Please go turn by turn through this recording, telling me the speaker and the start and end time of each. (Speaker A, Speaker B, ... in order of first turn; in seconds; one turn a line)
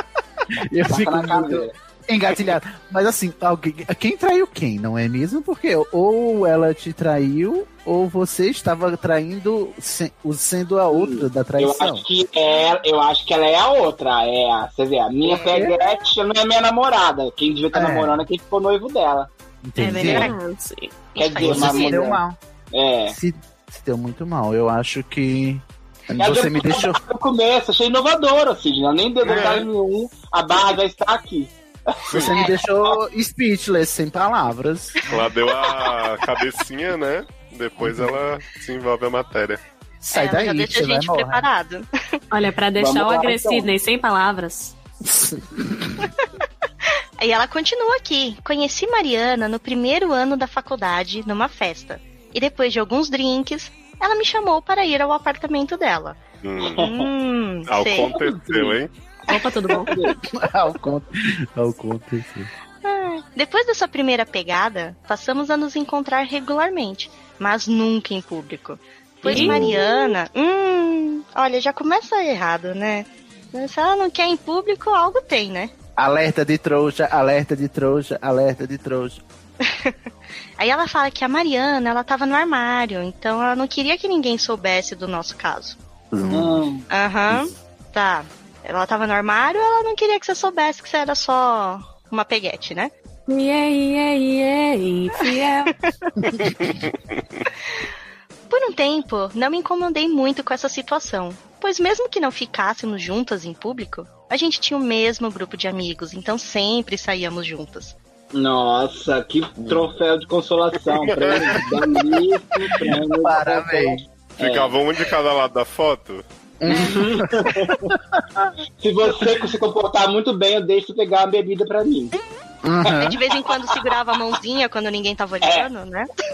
Speaker A: 0.6-12.0
Speaker B: 0.9-1.7
Speaker B: 10.9-19.3
Speaker A: 15.2-15.8
Speaker A: 17.7-18.2
Speaker A: 19.6-20.3
Speaker C: 19.8-20.4
Speaker D: 19.9-21.1
Speaker C: 21.1-22.0
Speaker B: 21.1-22.2
Speaker A: 21.4-22.4
Speaker B: 22.7-23.2
Speaker A: 23.1-27.0
Speaker B: 26.1-32.4
Speaker E: 29.2-29.6
Speaker A: 32.1-35.2
Speaker C: 32.3-32.6
Speaker E: 35.1-39.6
Speaker A: 37.8-38.1
Speaker A: 40.0-41.5
Speaker C: 40.1-41.9
Speaker D: 42.3-44.7
Speaker B: 42.8-43.7
Speaker A: 45.0-46.0
Speaker C: 47.2-56.2
Speaker E: 56.4-56.9
Speaker C: 56.7-58.1
Speaker E: 57.7-58.9
Speaker B: 58.1-58.8
Speaker D: 59.3-60.0
Speaker B: 59.8-60.1
Speaker A: 60.2-62.5
Speaker C: 62.8-75.7
Speaker D: 69.2-69.9
Speaker A: 69.3-69.8
Speaker A: 76.0-79.2
Speaker C: 79.6-80.0
Speaker C: 80.6-85.8
Speaker A: 86.1-86.6
Speaker B: 86.3-86.8
Speaker C: 86.9-92.9
Speaker D: 93.3-95.7
Speaker C: 98.5-108.0
Speaker B: 108.3-114.8
Speaker A: 109.6-109.9
Speaker E: 111.0-111.5
Speaker A: 111.3-112.1
Speaker A: 112.7-114.0
Speaker E: 114.4-116.2
Speaker A: 116.6-118.4
Speaker B: 116.7-117.8
Speaker B: 118.8-122.1
Speaker A: 122.6-123.2
Speaker C: 122.9-126.1
Speaker B: 125.4-125.7